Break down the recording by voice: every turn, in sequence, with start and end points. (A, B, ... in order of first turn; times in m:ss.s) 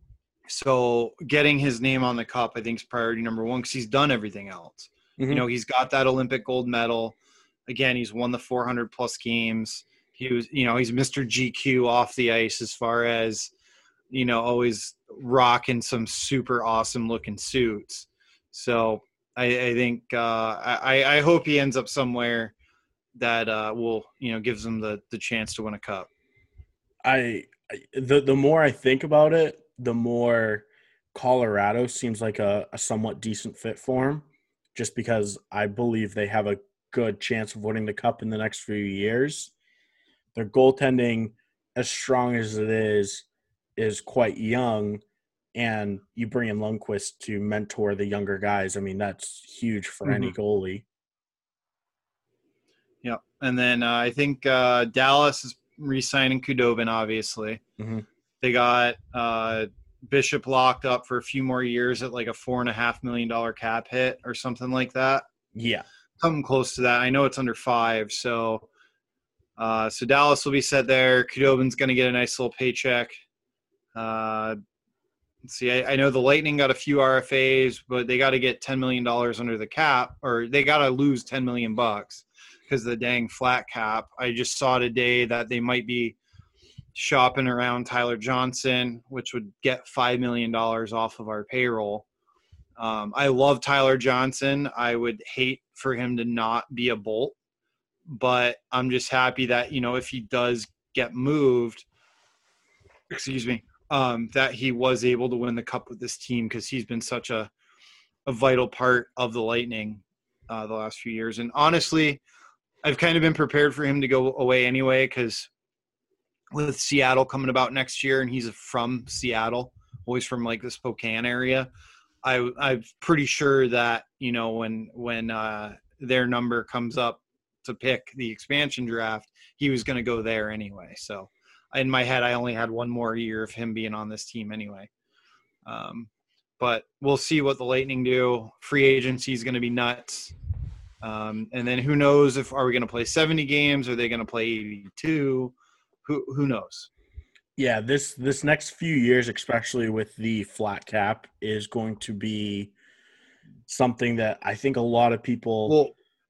0:00.5-0:07.2 A
0:05.2-0:05.5 B
0:07.7-0:13.5 A
0:14.1-0:22.5 A
0:23.2-0:26.1 A
0:27.0-0:39.5 B
0:40.4-0:43.2 B
0:43.8-0:45.0 B
0:45.6-0:50.8 B
0:50.0-0:50.3 A
0:53.0-0:57.6 A
0:57.8-0:58.0 B
0:58.4-1:05.3 A
1:05.5-1:05.8 B
1:06.2-1:08.7 A
1:09.6-1:13.2 A
1:14.0-1:14.6 A
1:15.4-1:26.2 A
1:27.0-1:32.1 A
1:32.8-1:37.4 A
1:38.1-1:41.8 A
1:43.1-1:47.5 A
1:48.3-1:52.2 A
1:52.8-1:55.5 A
1:56.5-2:01.7 A
2:02.2-2:14.9 A
2:15.6-2:20.3 A
2:21.0-2:26.9 A
2:27.6-2:32.7 B
2:33.7-2:35.8 B
2:35.7-2:35.9 A